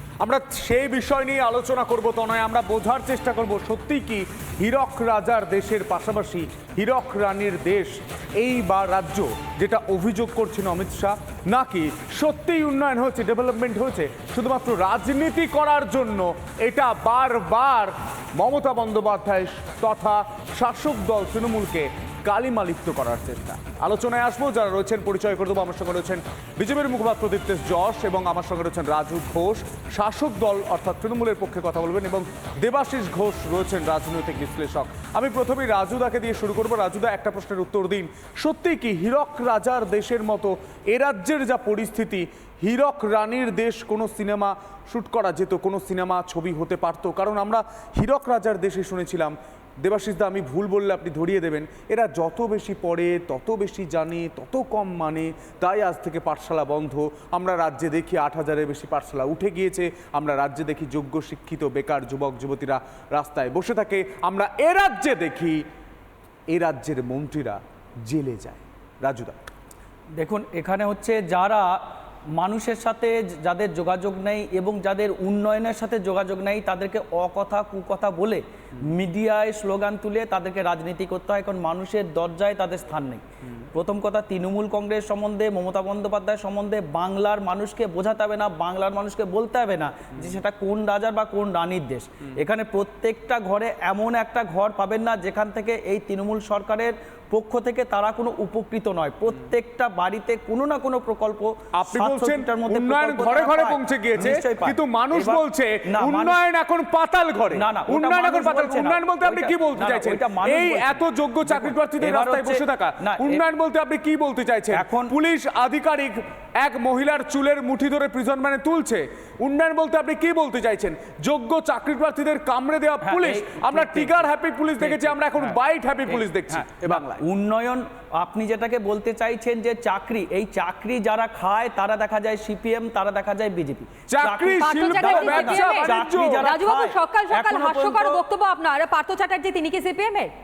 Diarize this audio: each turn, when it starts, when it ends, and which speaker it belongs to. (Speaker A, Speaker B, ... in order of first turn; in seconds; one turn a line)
Speaker A: 0.2-65.6
Speaker A: 66.5-69.3
Speaker B: 70.2-71.8
Speaker B: 72.3-106.4
Speaker A: 101.7-127.2
Speaker B: 107.5-113.4
Speaker B: 114.7-115.1
Speaker B: 123.0-138.2
Speaker A: 134.1-136.5
Speaker C: 134.6-140.3